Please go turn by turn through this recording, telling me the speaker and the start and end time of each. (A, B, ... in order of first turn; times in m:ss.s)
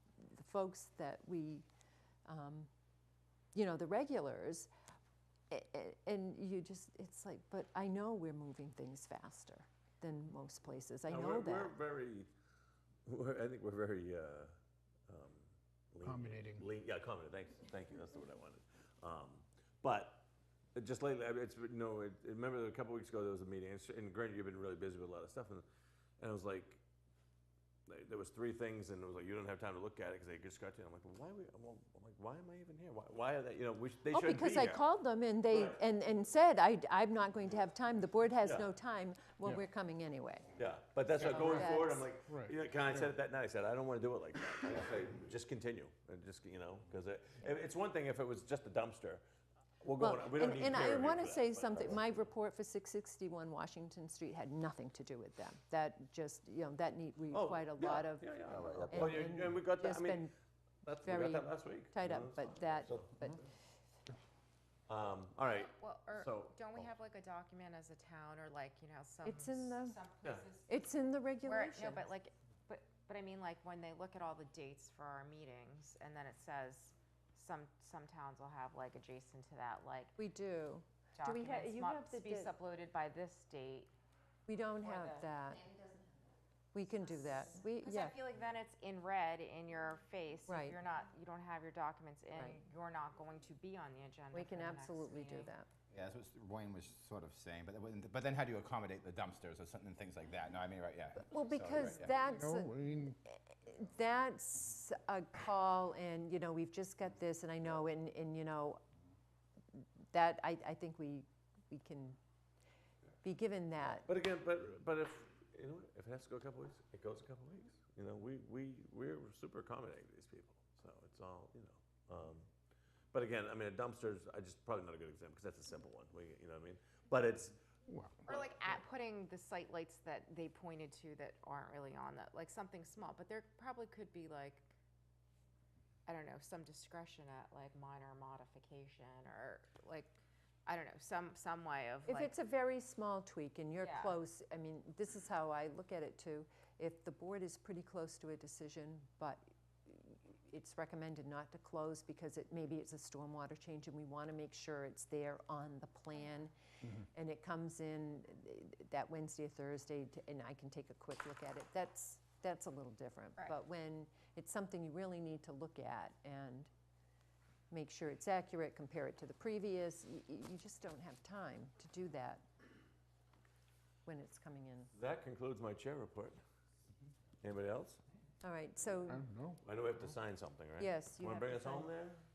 0:00.2-0:01.6 A
0:02.2-0:02.7 A
0:03.5-0:04.7 A
0:05.5-0:11.8 A
0:11.1-0:12.3 B
0:13.0-0:14.5 B
0:15.1-0:25.6 B
0:16.0-0:16.7 C
0:26.2-0:26.8 B
0:27.9-0:34.8 B
0:34.1-0:40.5 A
0:35.5-0:35.8 B
0:38.4-0:38.7 B
0:40.6-0:49.2 B
0:41.2-0:43.1 C
0:41.2-0:42.1 A
0:49.8-0:52.2 B
0:50.0-1:00.3 A
0:57.3-1:00.3 B
1:00.8-1:03.1 B
1:01.0-1:03.4 A
1:04.9-1:06.6 B
1:05.7-1:10.8 D
1:09.2-1:10.0 A
1:10.7-1:12.1 A
1:11.4-1:20.2 D
1:20.2-1:22.5 A
1:21.1-1:23.9 D
1:24.5-1:25.6 A
1:24.8-1:26.0 D
1:26.7-1:28.2 A
1:27.2-1:35.5 D
1:30.5-1:30.8 A
1:34.3-1:35.7 A
1:35.9-1:42.2 E
1:41.2-1:48.8 A
1:42.2-1:43.2 C
1:49.7-1:52.2 A
1:53.2-1:54.1 A
1:54.0-2:02.5 B
2:03.1-2:07.6 B
2:07.9-2:08.4 C
2:08.2-2:14.7 D
2:16.0-2:22.3 D
2:22.1-2:46.7 A
2:23.8-2:24.2 D
2:47.7-2:52.4 A
2:54.0-2:54.9 A
2:54.9-2:56.4 B
2:57.4-2:58.0 B
2:58.4-2:59.2 A
2:59.1-2:59.6 C
2:59.6-3:02.2 B
3:00.8-3:01.9 A